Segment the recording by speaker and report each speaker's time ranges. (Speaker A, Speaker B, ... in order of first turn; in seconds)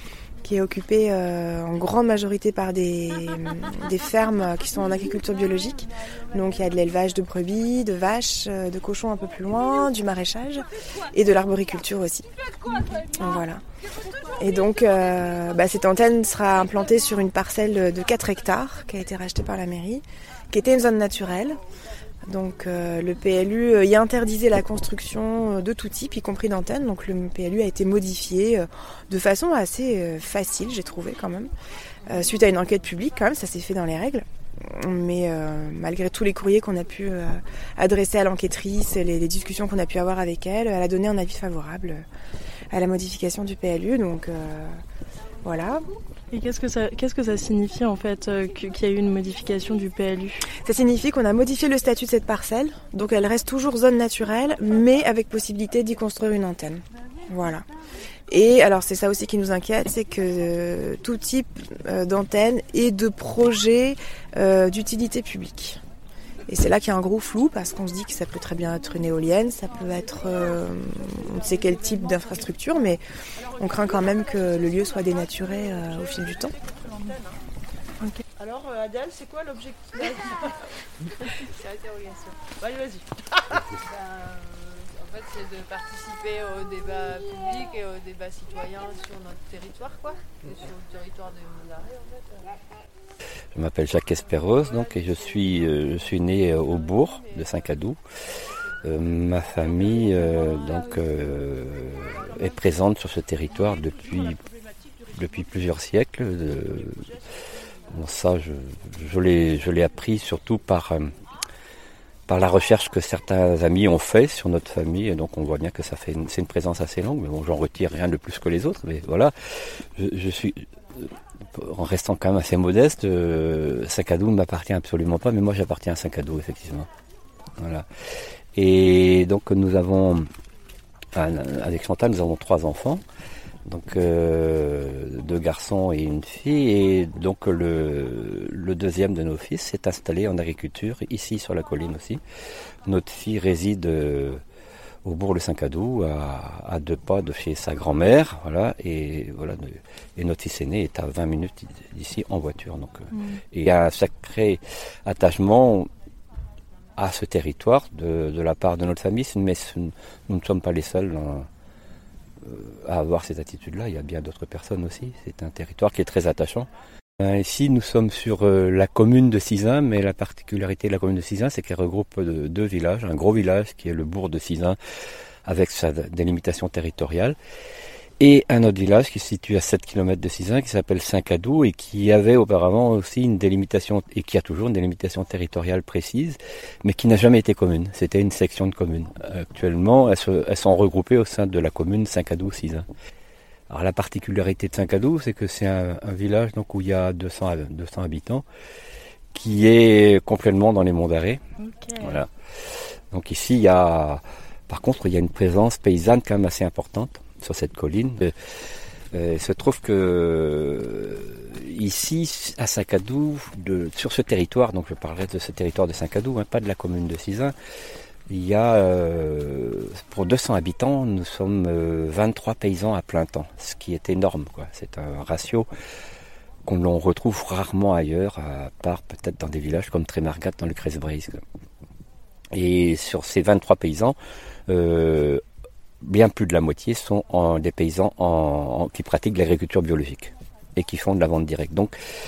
Speaker A: 0.4-12.3, 13.1-13.6, 14.4-21.6, 22.2-31.5, 32.0-42.0, 42.7-44.8, 45.4-45.8, 50.5-57.7, 58.3-65.8, 66.5-73.0, 73.6-76.6
Speaker B: 46.3-50.4, 153.1-153.4, 201.6-202.2
Speaker C: 76.3-77.4, 78.4-80.5, 82.5-83.1
Speaker D: 81.3-82.5, 83.7-92.5, 94.1-97.8, 98.5-101.4, 102.1-102.4
Speaker E: 93.5-98.0, 98.8-104.4, 105.1-107.0, 107.9-111.1, 112.3-126.9, 127.6-127.8, 128.5-130.3, 131.1-133.0, 133.7-142.2, 142.8-144.4, 145.0-155.9, 156.9-161.5, 162.4-174.8, 175.4-177.3, 178.2-192.8, 193.7-198.4, 199.3-201.4, 202.0-202.3, 203.1-208.3, 209.1-217.5, 218.3-225.7, 226.7-231.4, 232.5-234.2, 234.7-235.4, 236.0-241.9